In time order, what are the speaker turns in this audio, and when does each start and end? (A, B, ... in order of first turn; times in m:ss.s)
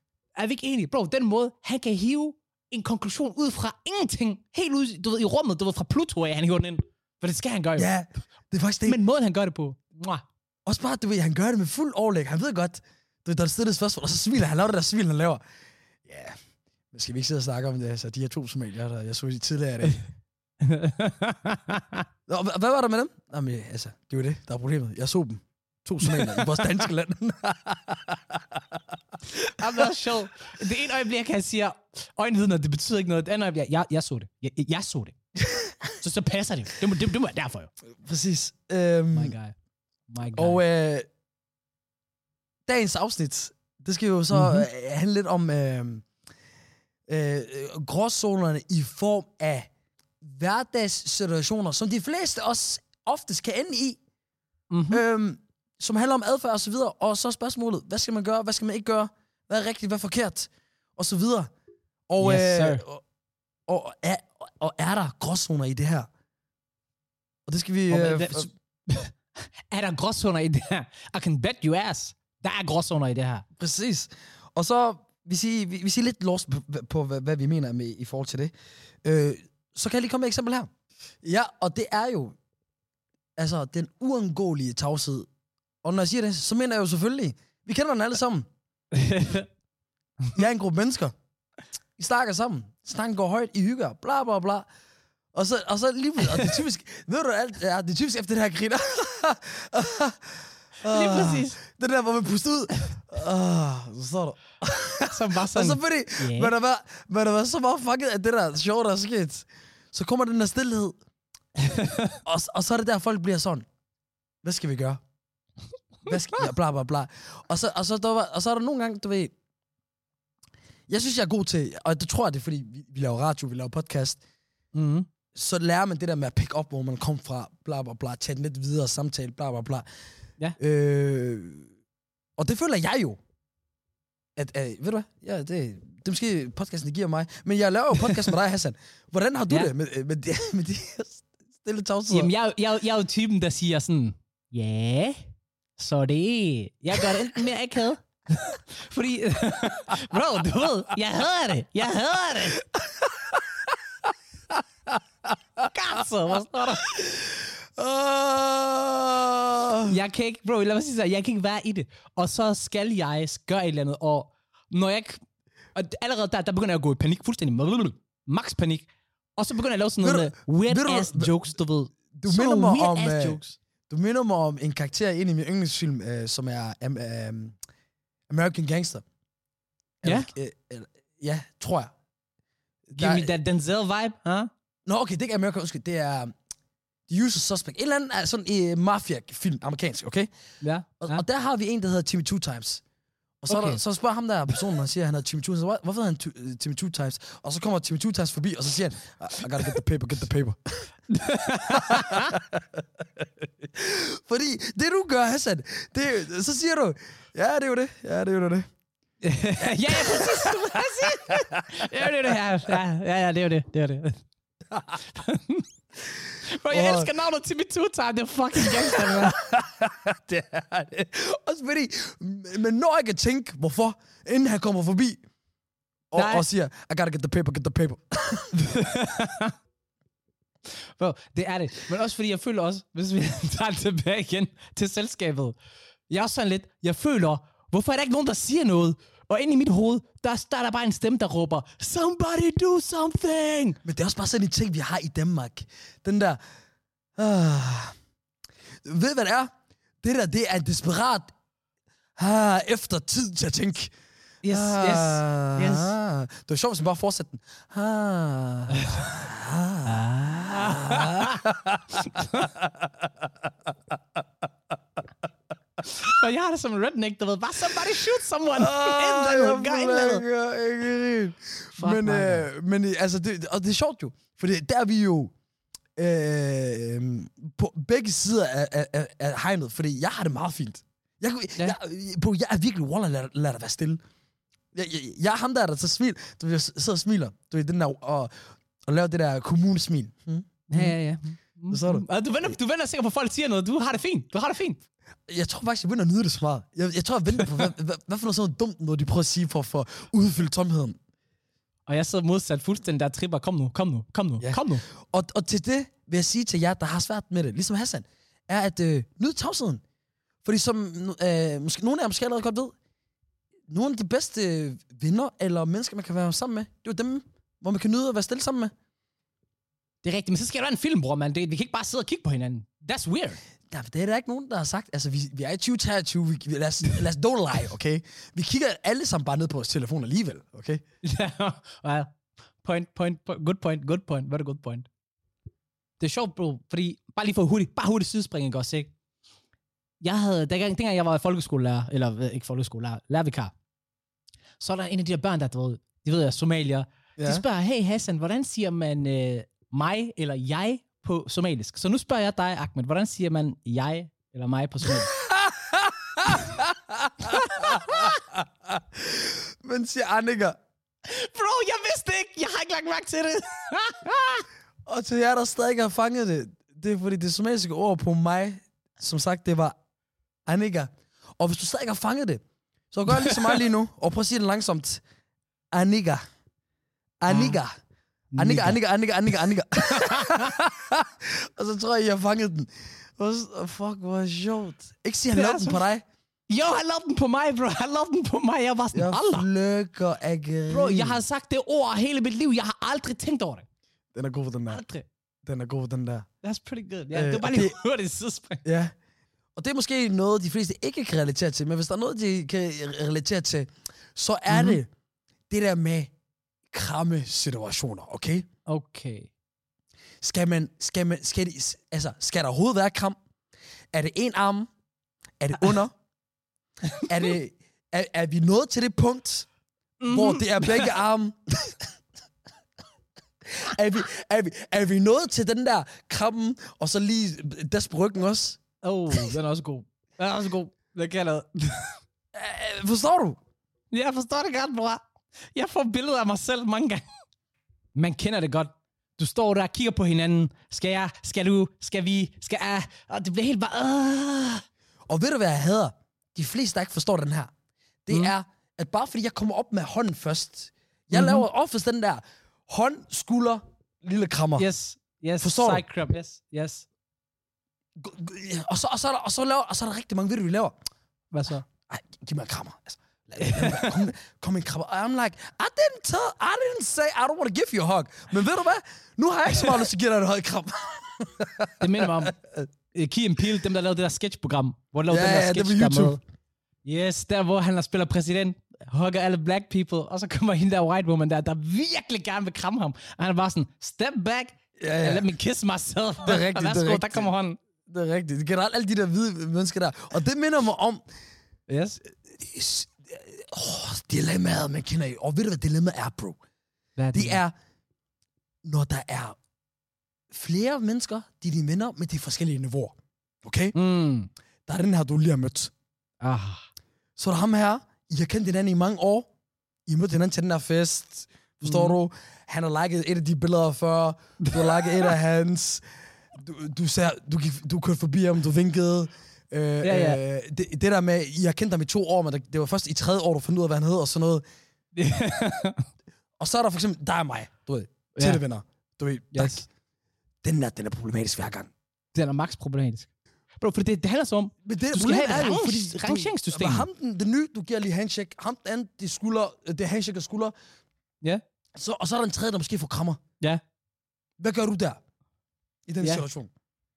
0:00.4-0:07.9 A
0:07.8-0:09.0 B
0:08.8-0:10.2 A
0:10.6-0:15.4 B
0:16.0-0:16.4 B
0:16.9-0:20.0 B
0:20.6-0:22.0 A
0:22.3-0:29.0 B
0:26.0-0:26.5 A
0:29.4-0:35.2 A
0:35.5-0:35.7 B
0:36.0-0:37.7 A
0:38.0-0:39.3 B
0:39.1-0:39.6 A
0:40.1-0:40.6 A
0:40.4-0:41.1 B
0:42.6-0:46.0 B
0:44.3-0:44.7 A
0:47.1-0:49.7 B
0:50.2-0:54.0 B
0:54.7-0:55.0 A
0:54.9-1:01.5 B
1:02.1-1:03.0 B
1:02.2-1:02.8 A
1:03.7-1:06.1 B
1:07.4-1:08.5 B
1:07.9-1:13.4 A
1:13.6-1:20.7 B
1:21.2-1:22.4 B
1:23.4-1:25.3 B
1:25.8-1:28.5 B
1:28.9-1:29.5 A
1:30.3-1:31.1 B
1:32.0-1:34.7 B
1:35.3-1:51.0 B
1:40.8-1:41.6 A
1:45.0-1:46.5 A
1:51.6-1:52.2 A
1:52.2-1:53.6 B
1:54.4-1:55.0 B
1:56.0-1:59.3 B
2:00.9-2:04.2 B
2:04.7-2:05.1 A
2:05.3-2:09.8 B
2:10.6-2:11.7 B
2:12.4-2:13.2 B
2:14.4-2:22.3 B
2:22.1-2:32.6 A
2:32.6-2:33.6 B
2:34.9-2:35.7 B
2:35.6-2:36.9 A
2:36.8-2:40.0 B
2:39.9-2:45.2 A
2:45.7-2:53.6 A
2:50.0-2:51.4 B
2:52.1-2:57.6 B
2:58.3-2:59.0 B
3:00.0-3:01.9 B
3:02.9-3:03.3 B
3:02.9-3:04.5 A
3:04.8-3:06.4 B
3:07.1-3:10.3 B
3:10.6-3:11.2 A
3:11.0-3:12.8 B
3:13.4-3:20.9 B
3:13.5-3:13.8 A
3:21.1-3:22.4 A
3:21.7-3:28.7 B
3:29.2-3:34.2 A
3:29.6-3:31.9 B
3:34.7-3:35.0 B
3:35.1-3:35.6 A
3:36.4-3:39.4 A
3:36.7-3:37.1 B
3:38.6-3:45.2 B
3:46.1-3:48.7 B
3:46.1-3:46.4 A
3:48.6-3:49.5 A
3:50.7-3:55.6 A
3:56.1-4:03.8 A
4:03.8-4:06.4 B
4:07.2-4:08.0 B
4:08.8-4:11.3 B
4:12.2-4:13.9 B
4:14.4-4:15.9 A
4:14.5-4:23.3 B
4:18.7-4:19.1 A
4:19.8-4:21.5 A
4:22.1-4:22.5 A
4:25.8-4:30.2 A
4:28.6-4:35.3 B
4:31.8-4:32.5 A
4:36.0-4:44.0 B
4:44.7-4:50.9 B
4:50.7-4:54.8 A
4:51.7-4:52.0 B
4:55.3-5:01.0 B
5:01.9-5:04.8 A
5:04.4-5:09.8 B
5:10.4-5:12.7 B
5:13.7-5:18.7 B
5:20.0-5:23.4 A
5:23.7-5:30.8 B
5:31.0-5:34.9 A
5:36.0-5:38.9 A
5:40.0-5:43.5 A
5:44.6-5:55.1 A
5:47.2-5:47.4 B
5:54.8-6:00.6 B
5:57.3-5:58.2 A
6:01.0-6:04.4 A
6:04.8-6:09.7 B
6:10.4-6:15.0 B
6:13.1-6:13.6 A
6:15.7-6:16.2 B
6:17.2-6:17.7 B
6:17.3-6:17.6 A
6:18.3-6:18.8 A
6:18.4-6:26.0 B
6:19.8-6:20.5 A
6:25.3-6:25.8 A
6:26.5-6:29.5 A
6:28.9-6:31.2 B
6:30.7-6:33.7 A
6:34.1-6:34.8 B
6:34.7-6:35.1 A
6:35.4-6:36.2 B
6:36.4-6:38.6 A
6:37.1-6:37.8 B
6:38.6-6:38.9 B
6:39.6-6:44.9 B
6:44.5-6:44.8 A
6:45.5-6:46.1 B
6:46.7-6:48.4 B
6:48.7-6:49.3 A
6:50.2-6:53.2 B
6:53.9-6:54.7 B
6:55.4-6:55.9 B
6:57.0-6:59.5 B
7:00.0-7:00.9 A
7:00.1-7:01.9 B
7:03.4-7:08.6 B
7:08.8-7:12.0 A
7:12.3-7:13.4 B
7:13.9-7:17.0 A
7:17.9-7:24.6 A
7:25.1-7:27.5 B
7:28.0-7:34.7 B
7:31.1-7:31.4 A
7:34.6-7:36.8 A
7:35.4-7:35.8 B
7:38.0-7:40.8 B
7:41.3-7:41.6 A
7:41.7-7:52.7 B
7:43.4-7:44.0 A
7:51.8-7:52.4 A
7:52.9-7:56.2 A
7:55.1-7:56.2 B
7:56.8-8:07.6 A
8:04.8-8:05.3 B
8:06.2-8:07.3 B
8:07.8-8:11.0 B
8:11.7-8:12.0 A
8:12.1-8:16.4 B
8:17.0-8:17.4 A
8:17.1-8:17.5 B
8:18.6-8:19.4 B
8:20.3-8:23.8 B
8:23.7-8:24.3 A
8:24.7-8:25.7 B
8:26.2-8:26.7 A
8:27.2-8:29.3 B
8:29.8-8:44.4 B
8:31.6-8:32.0 A
8:34.4-8:35.1 A
8:39.8-8:40.2 A
8:44.9-8:45.9 A
8:46.4-8:49.7 B
8:48.2-8:48.4 A
8:49.3-8:49.6 A
8:50.4-8:51.7 B
8:52.1-8:56.9 A
8:54.6-9:00.5 B
9:01.7-9:03.2 B
9:04.4-9:05.0 B
9:05.9-9:06.5 B